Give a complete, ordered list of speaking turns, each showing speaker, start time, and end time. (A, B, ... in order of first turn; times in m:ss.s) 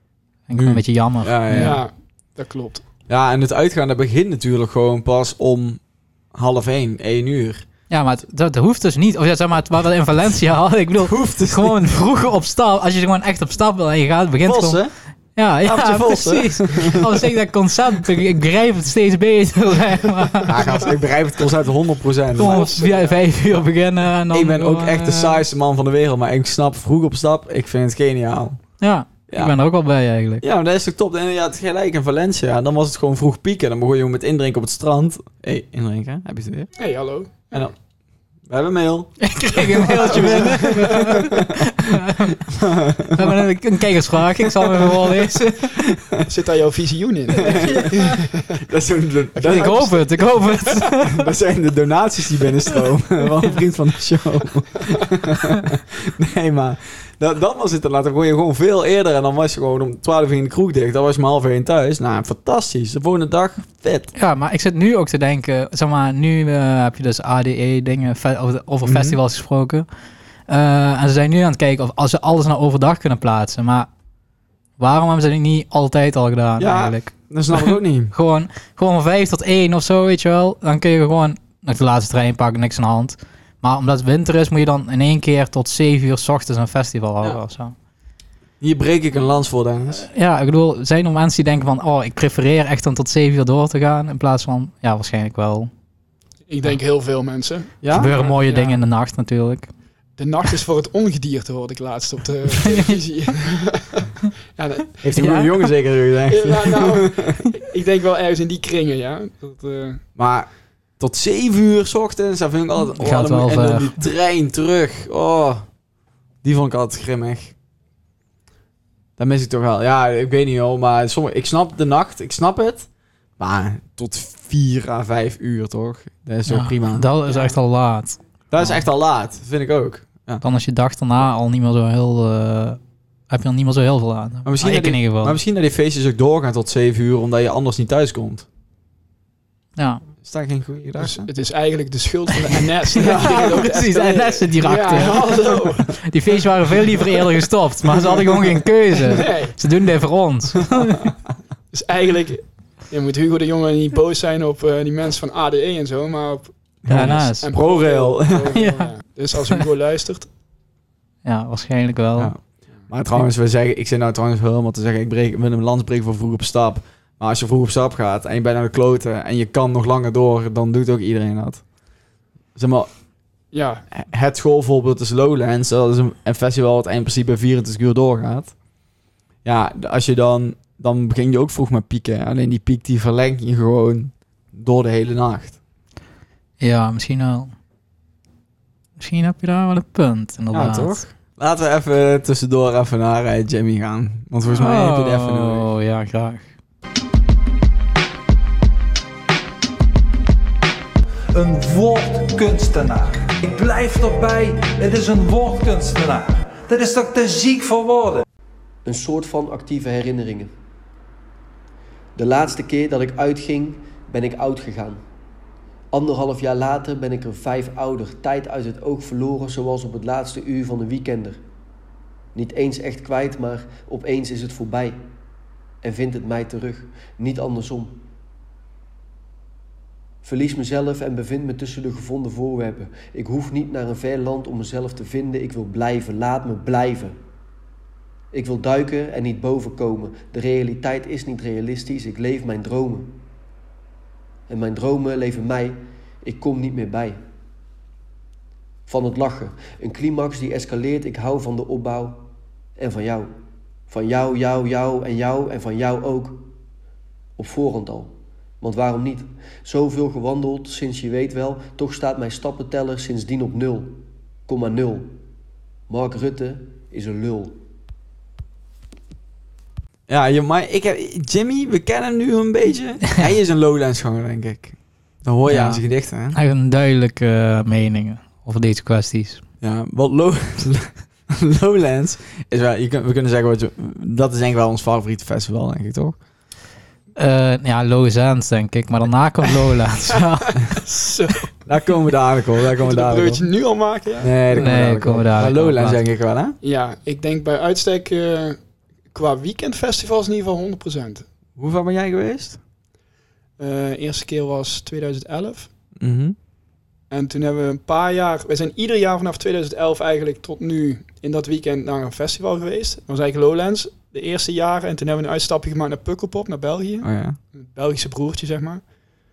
0:00.5-0:01.8 A
0:00.5-0:01.8 B
0:01.5-0:02.8 C
0:03.1-0:05.8 B
0:06.3-0:07.6 B
0:07.9-0:14.8 A
0:11.0-0:11.9 B
0:14.4-0:14.9 B
0:15.3-0:20.8 A
0:15.6-0:17.3 B
0:20.5-0:22.7 B
0:22.4-0:25.4 A
0:22.4-0:23.2 C
0:24.3-0:28.6 B
0:28.8-0:30.4 A
0:29.3-0:29.6 B
0:30.4-0:36.7 B
0:36.8-0:37.7 C
0:38.4-0:41.6 B
0:39.2-0:42.4 A
0:40.0-0:41.2 C
0:42.5-0:43.5 B
0:43.1-0:45.8 A
0:44.4-0:45.0 B
0:45.8-0:46.2 B
0:46.2-0:48.6 C
0:47.4-0:47.9 B
0:47.4-0:48.0 A
0:48.6-0:50.0 B
0:49.4-0:50.6 C
0:49.4-0:51.2 A
0:50.8-1:04.1 B
1:04.1-1:09.8 A
1:08.8-1:09.2 B
1:10.5-1:13.9 A
1:14.8-1:27.7 A
1:16.6-1:18.1 B
1:28.6-1:30.1 B
1:30.0-1:35.7 A
1:36.5-1:38.8 C
1:37.8-1:38.1 B
1:37.9-1:39.7 A
1:40.2-1:45.0 C
1:42.6-1:42.9 A
1:45.0-1:47.4 B
1:45.1-1:45.5 A
1:46.3-1:50.0 C
1:50.2-1:50.5 B
1:51.0-1:55.6 B
1:52.9-1:54.0 A
1:56.4-1:57.5 B
1:59.2-2:02.9 B
2:03.4-2:07.1 B
2:06.5-2:08.8 A
2:08.5-2:10.4 B
2:10.4-2:15.4 A
2:14.4-2:18.4 B
2:19.8-2:20.0 A
2:20.2-2:21.3 B
2:21.0-2:26.0 C
2:22.4-2:31.0 A
2:23.0-2:23.6 B
2:24.9-2:25.6 B
2:29.1-2:29.6 C
2:31.7-2:40.3 C
2:36.8-2:38.5 B
2:36.9-2:37.5 A
2:38.5-2:38.9 A
2:41.2-2:42.3 A
2:42.2-2:51.6 B
2:52.5-2:52.9 B
2:53.5-2:53.8 C
2:53.9-2:58.5 B
2:59.4-3:05.6 B
3:06.6-3:07.5 A
3:09.0-3:11.0 A
3:10.5-3:15.6 B
3:14.4-3:16.5 A
3:21.3-3:28.2 D
3:28.8-3:30.5 E
3:32.2-3:35.0 E
3:35.9-3:41.4 E
3:42.3-3:45.0 E
3:45.8-3:48.0 E
3:50.2-3:57.2 E
3:58.3-4:03.2 E
4:04.5-4:07.2 E
4:08.9-4:12.2 E
4:12.8-4:13.3 E
4:13.9-4:16.4 E
4:17.4-4:25.1 E
4:25.9-4:27.6 E
4:30.1-4:36.4 B
4:35.5-4:39.4 A
4:39.6-4:46.2 B
4:47.2-4:50.8 A
4:50.6-4:51.5 C
4:51.6-4:53.5 B
4:52.8-4:54.6 C
4:54.2-4:56.6 B
4:54.5-4:56.0 A
4:56.6-4:58.6 C
4:59.1-5:01.2 C
5:01.6-5:02.6 B
5:03.6-5:05.7 C
5:06.0-5:06.4 B
5:07.1-5:18.9 C
5:17.0-5:17.4 B